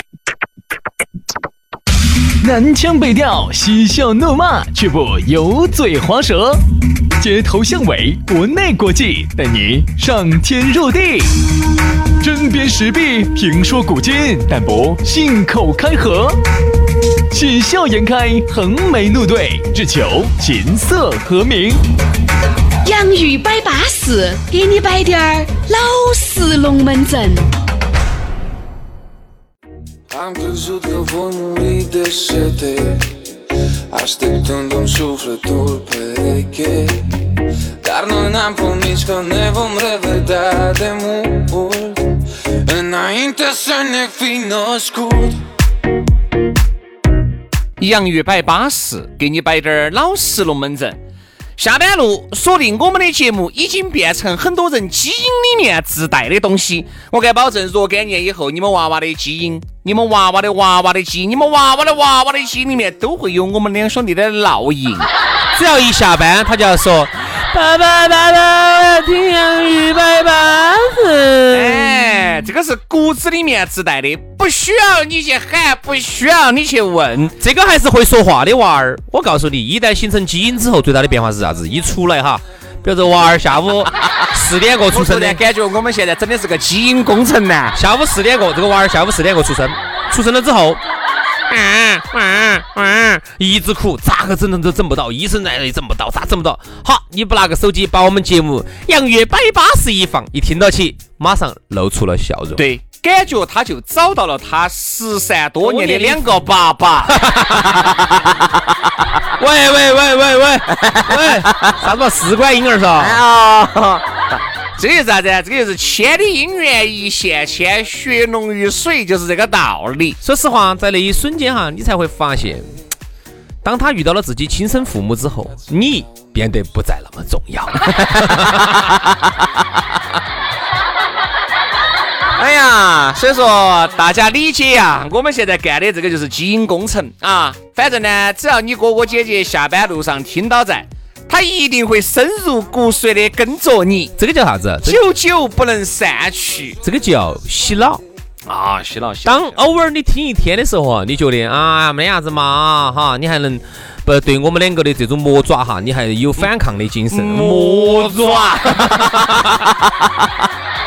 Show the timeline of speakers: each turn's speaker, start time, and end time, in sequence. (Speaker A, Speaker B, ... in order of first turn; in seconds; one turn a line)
Speaker A: 2.4-6.7
Speaker A: 7.2-11.4
Speaker A: 12.2-16.4
Speaker A: 17.3-21.8
Speaker B: 22.8-27.5
Speaker C: 30.1-33.0
Speaker C: 33.9-37.0
Speaker C: 37.8-42.1
Speaker C: 42.7-45.4
Speaker D: 47.8-51.0
Speaker D: 51.6-65.1
Speaker E: 65.5-72.1
Speaker D: 71.5-77.3
Speaker E: 77.4-85.4
Speaker D: 84.9-87.8
Speaker E: 87.7-90.8
Speaker E: 91.5-102.6
Speaker D: 102.6-107.9
Speaker E: 105.6-106.3
Speaker E: 107.1-107.8
Speaker E: 109.4-113.2
Speaker D: 110.8-111.8
Speaker D: 113.0-114.1
Speaker D: 114.8-120.2
Speaker E: 120.2-122.8
Speaker E: 123.6-129.1
Speaker D: 127.8-128.1
Speaker D: 132.4-144.1
Speaker E: 144.2-145.0
Speaker D: 144.8-146.8
Speaker E: 146.8-148.0
Speaker D: 148.5-149.6
Speaker E: 149.2-159.4
Speaker D: 157.1-159.7